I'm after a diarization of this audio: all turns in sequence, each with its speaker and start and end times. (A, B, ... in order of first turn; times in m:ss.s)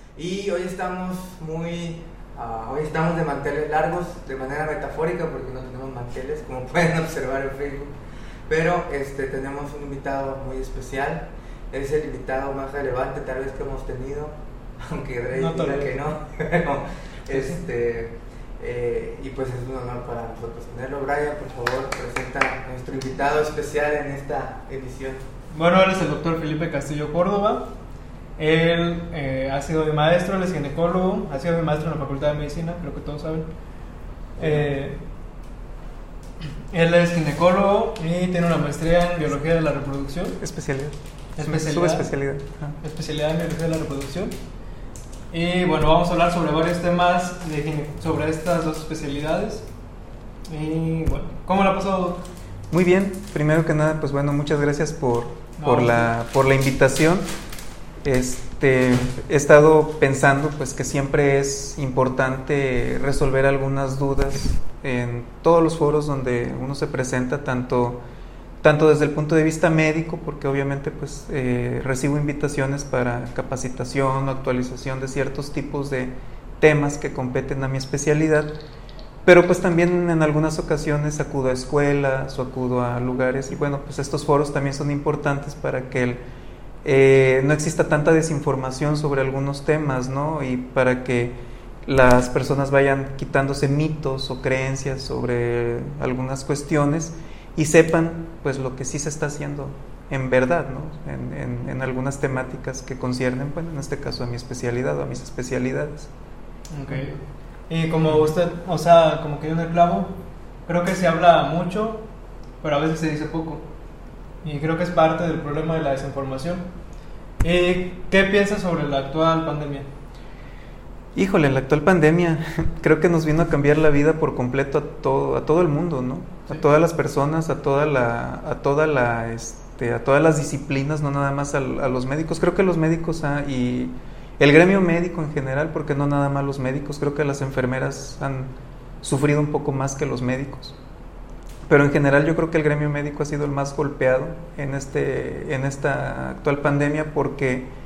0:00.2-0:07.9 A
0:08.5-0:25.2 A
0:15.3-0:15.9 B
0:25.5-0:27.7 B
0:28.4-0:33.5 B
0:34.4-0:35.0 B
0:36.7-0:40.4 B
0:40.4-0:42.8 C
0:41.4-0:42.1 B
0:42.8-0:44.3 B
0:45.3-0:49.7 B
0:50.5-0:52.2 B
0:52.7-0:57.2 C
0:55.6-0:56.1 B
0:58.0-1:08.0 C
1:08.6-1:18.5 C
1:19.2-1:26.2 C
1:26.8-1:46.1 C
1:46.7-1:52.0 B
1:52.6-1:53.6 B
1:54.4-1:56.6 B
1:57.4-1:59.9 B
2:01.1-2:18.5 C
2:19.0-2:20.8 C
2:21.7-2:27.7 C